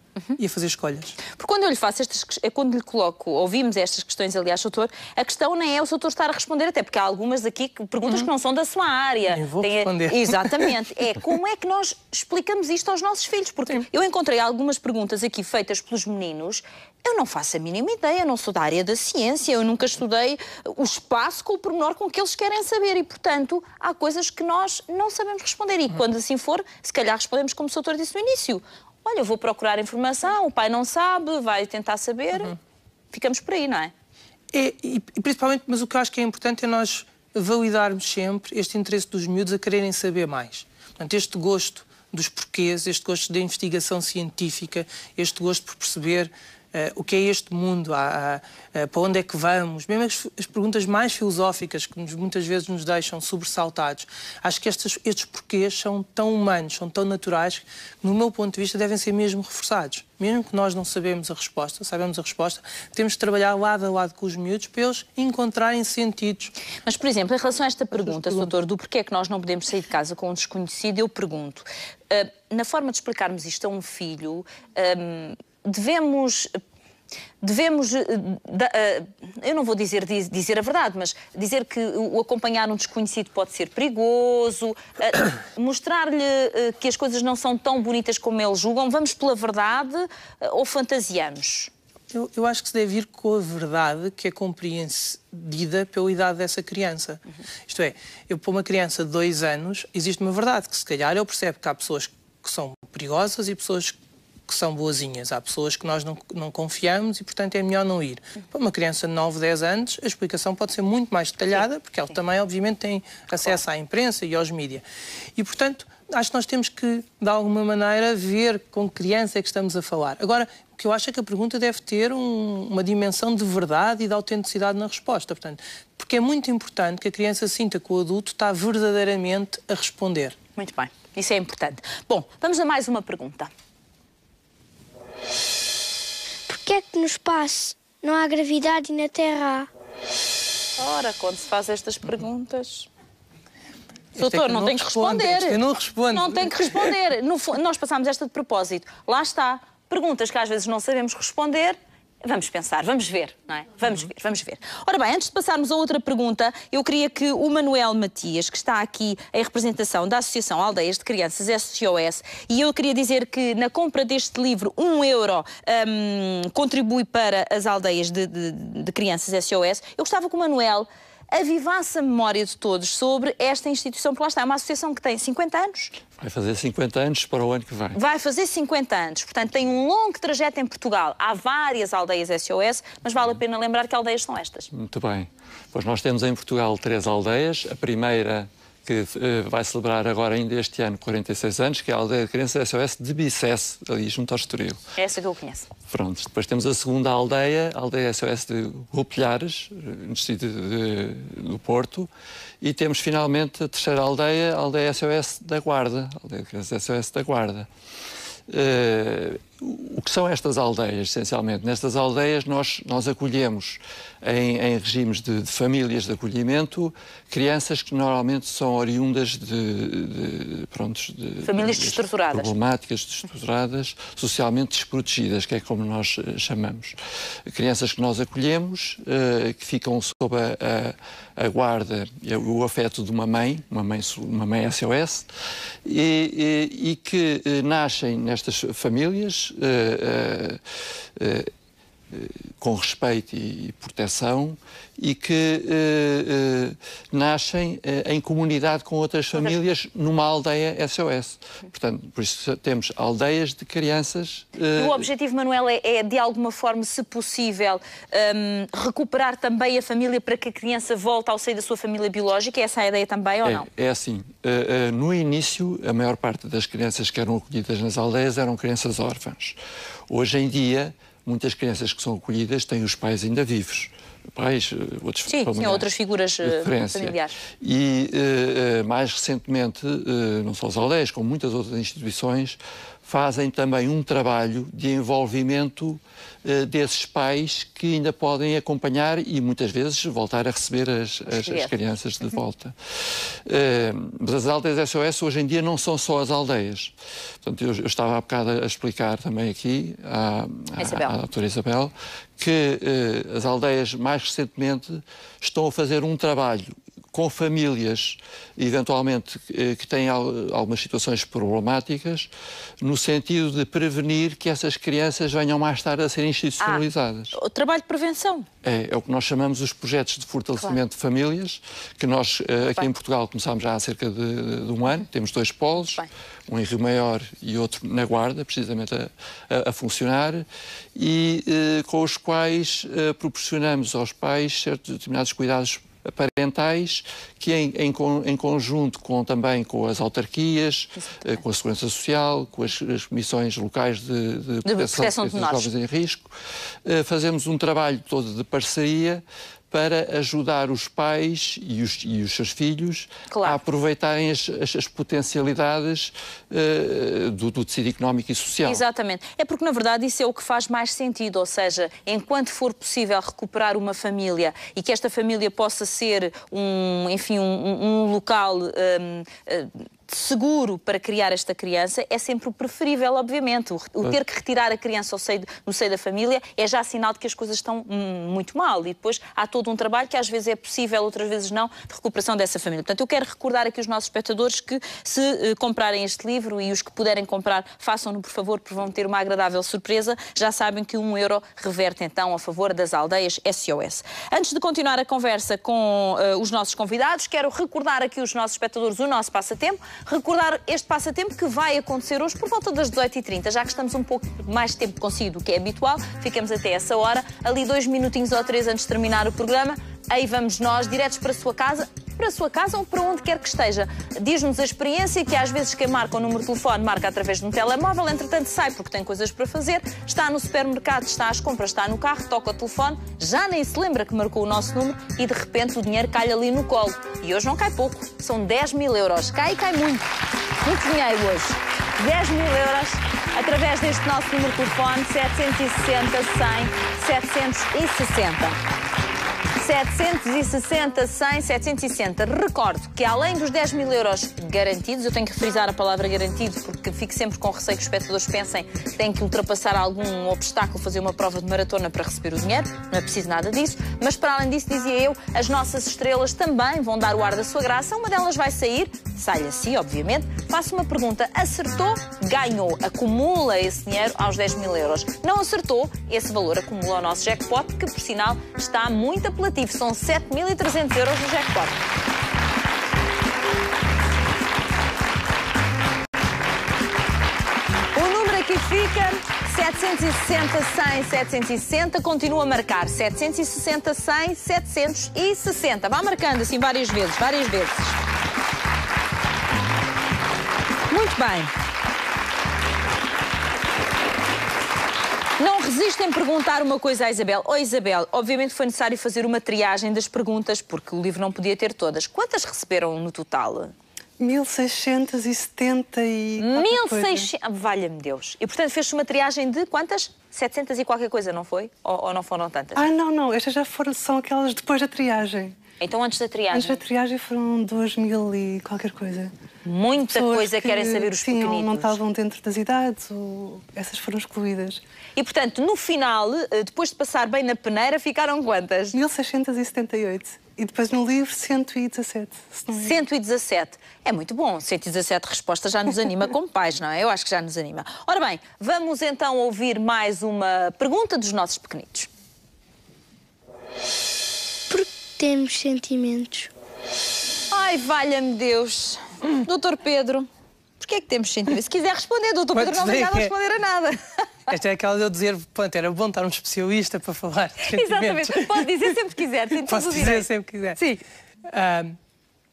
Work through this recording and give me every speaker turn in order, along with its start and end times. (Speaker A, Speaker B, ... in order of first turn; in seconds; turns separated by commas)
Speaker A: 0.4-1.2, Speaker B: 1.2-32.5, Speaker A: 9.3-10.7, Speaker B: 33.1-33.9, Speaker A: 34.5-66.5, Speaker B: 66.8-76.6, Speaker A: 68.0-68.4, Speaker B: 77.4-91.7, Speaker A: 92.1-104.0, Speaker A: 104.5-114.8, Speaker A: 115.4-130.3, Speaker B: 130.6-133.5, Speaker C: 136.5-139.7, Speaker B: 140.8-142.9, Speaker A: 144.1-146.9, Speaker B: 144.2-145.6, Speaker B: 146.1-175.9, Speaker D: 176.2-178.0, Speaker B: 177.9-184.7, Speaker D: 184.7-194.8, Speaker B: 195.0-195.7, Speaker D: 195.9-202.1, Speaker D: 202.6-207.7, Speaker D: 208.5-226.9, Speaker B: 221.4-222.5, Speaker D: 227.5-235.3, Speaker D: 235.8-240.6, Speaker D: 241.2-241.5, Speaker D: 242.1-255.0, Speaker B: 254.7-263.7, Speaker D: 263.4-269.6, Speaker D: 270.1-275.9, Speaker B: 275.3-277.4, Speaker D: 276.4-312.3, Speaker B: 291.4-291.7, Speaker B: 300.8-301.1, Speaker D: 312.8-317.3, Speaker B: 316.6-318.5, Speaker D: 318.6-346.3, Speaker B: 325.8-326.1, Speaker B: 344.6-345.7, Speaker D: 346.8-358.8, Speaker B: 353.3-353.6, Speaker B: 358.6-430.0, Speaker B: 430.6-438.6, Speaker B: 439.5-471.8, Speaker B: 477.9-487.9, Speaker B: 490.9-491.5, Speaker B: 495.4-503.7, Speaker E: 504.2-507.3, Speaker B: 506.4-512.8, Speaker E: 512.8-515.5, Speaker B: 515.8-516.8, Speaker E: 516.5-519.3, Speaker B: 519.6-522.0, Speaker E: 520.0-524.8, Speaker B: 525.1-529.0, Speaker E: 528.9-533.0, Speaker B: 532.7-542.1, Speaker C: 544.7-546.5, Speaker B: 547.5-550.3, Speaker B: 550.8-554.2, Speaker A: 552.5-553.3, Speaker A: 554.5-558.8, Speaker B: 557.6-561.0, Speaker A: 559.6-560.8, Speaker A: 561.5-562.0